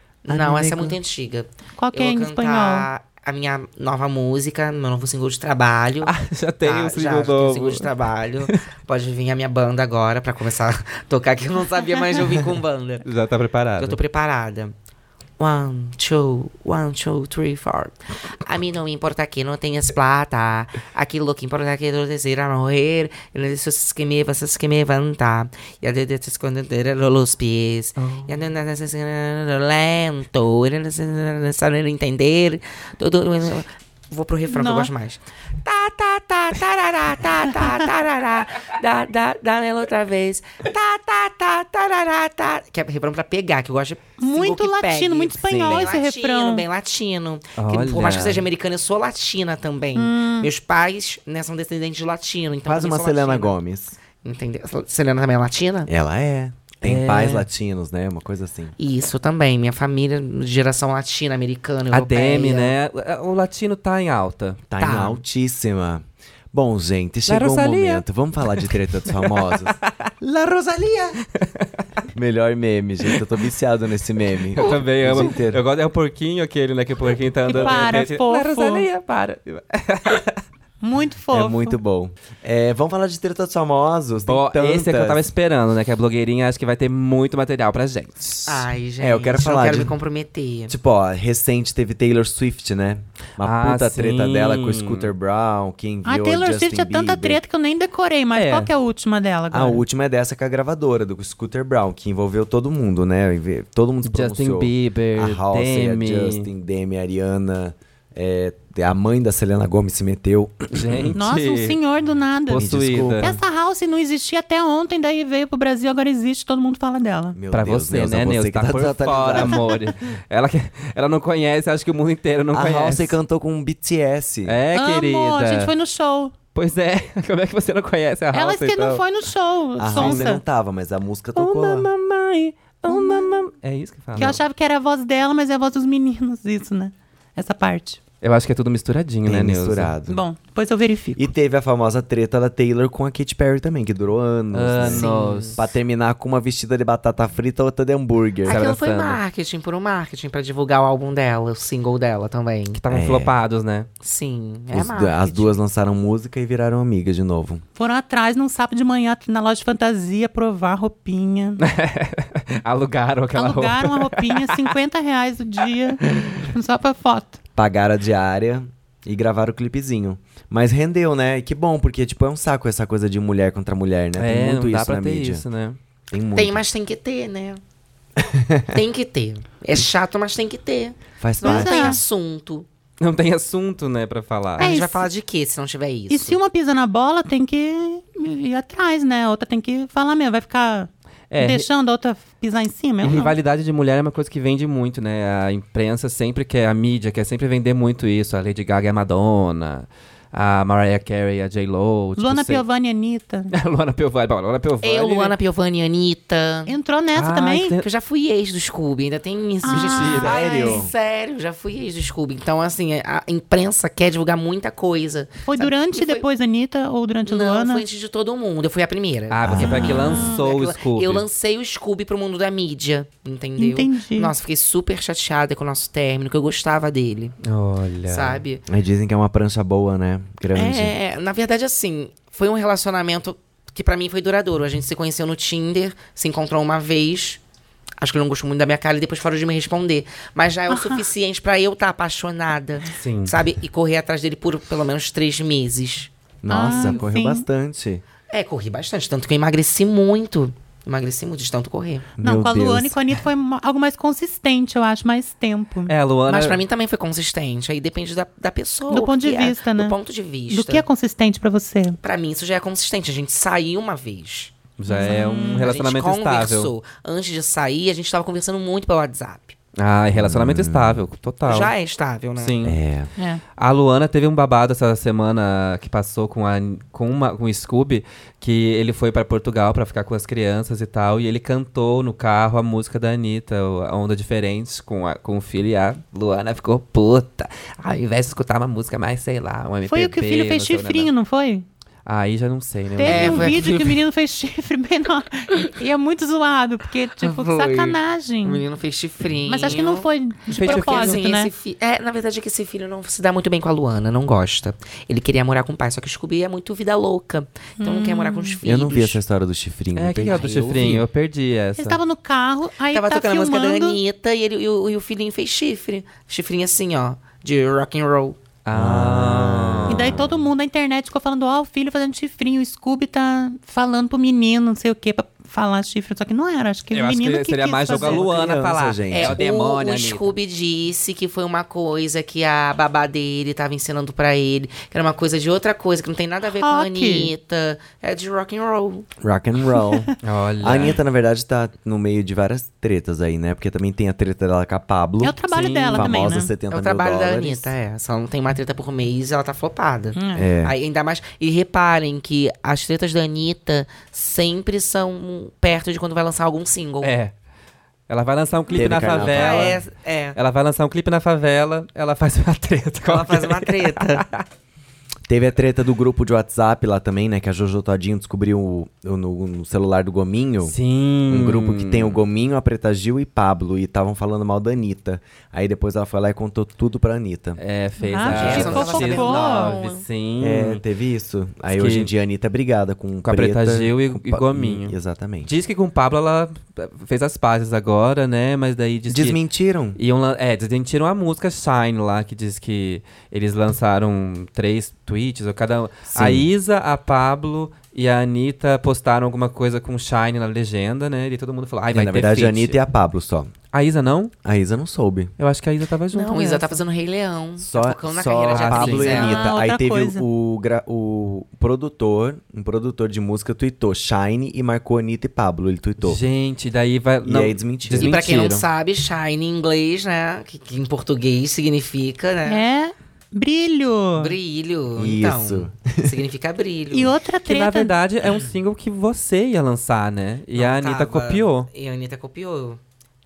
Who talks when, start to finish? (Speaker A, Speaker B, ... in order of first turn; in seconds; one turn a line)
Speaker A: 0.2-13.0
Speaker B: 0.3-1.0
Speaker C: 1.8-2.9
Speaker D: 6.0-7.9
Speaker D: 13.0-14.0
Speaker A: 13.8-14.7
Speaker A: 15.4-53.5
Speaker D: 28.0-28.3
Speaker C: 34.5-34.9
Speaker C: 44.2-46.6
Speaker B: 45.5-45.9
Speaker D: 47.6-48.5
Speaker C: 49.9-50.5
Speaker B: 52.6-54.0
Speaker A: 54.2-55.9
Speaker B: 55.9-58.7
Speaker D: 56.8-57.5
Speaker A: 58.8-62.8
Speaker D: 61.9-64.7
Speaker B: 64.7-71.2
Speaker A: 64.8-65.2
Speaker D: 67.3-70.1
Speaker D: 71.3-71.7
Speaker B: 72.1-75.6
Speaker D: 74.5-80.4
Speaker C: 77.5-78.8
Speaker B: 77.5-77.9
Speaker C: 80.8-81.8
Speaker B: 81.3-85.3
Speaker D: 84.3-88.7
Speaker A: 88.5-90.7
Speaker B: 89.0-89.9
Speaker B: 90.7-97.4
Speaker D: 93.4-95.1
Speaker C: 96.0-99.8
Speaker D: 98.3-98.7
Speaker B: 99.5-111.2
Speaker D: 104.0-106.5
Speaker D: 110.7-111.8
Speaker C: 111.1-117.4
Speaker D: 112.5-113.3
Speaker B: 112.5-113.4
Speaker B: 117.3-119.6
Speaker D: 117.5-123.2
Speaker B: 122.5-124.6
Speaker D: 124.5-125.7
Speaker C: 124.7-126.3
Speaker D: 126.5-129.0
Speaker C: 128.3-130.4
Speaker B: 129.8-131.9
Speaker D: 129.9-130.3
Speaker D: 131.3-134.4
Speaker C: 132.9-133.3
Speaker C: 134.2-138.0
Speaker D: 138.2-139.9
Speaker B: 139.2-140.2
Speaker C: 140.1-141.3
Speaker B: 141.2-148.6
Speaker D: 144.5-145.6
Speaker A: 144.8-145.6
Speaker A: 148.4-152.8
Speaker D: 148.5-149.2
Speaker D: 152.7-153.9
Speaker B: 152.9-153.3
Speaker A: 154.0-155.5
Speaker B: 154.7-157.6
Speaker C: 157.8-161.6
Speaker D: 161.6-164.7
Speaker C: 163.3-167.4
Speaker D: 166.0-166.4
Speaker B: 167.6-175.4
Speaker D: 174.2-175.8
Speaker B: 176.1-176.6
Speaker A: 176.3-177.6
Speaker B: 178.2-178.7
Speaker A: 178.7-182.7
Speaker B: 181.2-182.0
Speaker C: 181.4-182.0
Speaker D: 183.0-184.7
Speaker A: 184.6-186.4
Speaker C: 184.6-185.1
Speaker C: 186.1-193.3
Speaker D: 191.3-191.7
Speaker D: 193.0-202.6
Speaker C: 202.2-203.5
Speaker D: 203.5-205.3
Speaker A: 204.8-206.7
Speaker C: 206.7-207.8
Speaker D: 207.1-207.8
Speaker A: 207.8-216.2
Speaker C: 209.6-210.8
Speaker D: 209.7-210.4
Speaker B: 209.9-210.9
Speaker C: 215.4-217.8
Speaker A: 217.2-227.3
Speaker D: 219.3-221.2
Speaker B: 219.4-220.3
Speaker C: 223.6-224.3
Speaker D: 227.4-228.4
Speaker A: 228.1-228.6
Speaker B: 228.7-230.9
Speaker A: 230.5-237.4
Speaker A: 238.0-246.1
Speaker C: 240.7-241.1
Speaker D: 242.9-243.3
Speaker B: 246.4-248.0
Speaker C: 246.5-247.4
Speaker A: 246.6-247.0
Speaker A: 248.3-252.1
Speaker B: 252.2-253.0
Speaker C: 252.2-255.9
Speaker D: 255.9-256.6
Speaker A: 256.3-260.8
Speaker C: 258.9-260.0
Speaker C: 260.5-262.0
Speaker A: 262.0-264.5
Speaker D: 264.8-266.7
Speaker C: 264.9-265.7
Speaker A: 265.6-269.6
Speaker D: 269.8-271.7
Speaker B: 270.1-271.0
Speaker A: 271.4-272.6
Speaker D: 272.4-272.8
Speaker B: 272.6-273.1
Speaker C: 273.2-273.4
Speaker D: 273.6-291.1
Speaker C: 289.9-291.6
Speaker D: 292.1-293.6
Speaker C: 293.0-298.6
Speaker A: 293.0-294.0
Speaker A: 297.2-309.2
Speaker C: 299.4-301.5
Speaker D: 300.5-301.2
Speaker C: 307.8-308.6
Speaker B: 308.6-311.0
Speaker D: 309.9-312.0
Speaker A: 310.4-311.0
Speaker C: 311.8-314.0
Speaker A: 312.9-318.4
Speaker D: 318.6-320.2
Speaker B: 318.7-320.4
Speaker C: 319.9-328.2
Speaker D: 326.9-330.3
Speaker B: 327.9-329.4
Speaker A: 329.1-339.1
Speaker C: 336.5-337.3
Speaker B: 339.2-347.7
Speaker D: 340.2-341.0
Speaker C: 345.2-346.5
Speaker D: 345.5-346.4
Speaker A: 346.7-357.1
Speaker C: 350.1-350.4
Speaker B: 350.3-350.7
Speaker D: 357.0-357.3
Speaker D: 358.1-359.8
Speaker B: 358.7-359.8
Speaker A: 358.8-360.4
Speaker D: 360.3-364.4
Speaker A: 363.0-364.2
Speaker B: 365.3-370.8
Speaker D: 370.6-372.2
Speaker B: 371.3-377.6
Speaker D: 377.6-380.8
Speaker C: 378.0-379.8
Speaker A: 378.2-380.0
Speaker B: 378.3-378.8
Speaker B: 380.4-385.5
Speaker D: 381.7-382.1
Speaker D: 383.2-389.4
Speaker B: 389.1-390.0
Speaker D: 389.9-402.8
Speaker B: 396.1-396.5
Speaker B: 401.9-403.5
Speaker D: 403.7-404.3
Speaker B: 404.4-405.3
Speaker D: 405.4-406.8
Speaker A: 406.1-409.5
Speaker B: 407.6-416.2
Speaker D: 408.5-409.3
Speaker C: 409.1-410.2
Speaker D: 416.0-418.6
Speaker B: 417.2-418.2
Speaker A: 417.9-422.6
Speaker C: 422.4-424.4
Speaker A: 424.1-427.1
Speaker B: 424.9-426.2
Speaker C: 426.9-427.9
Speaker D: 427.4-431.7
Speaker A: 430.5-432.8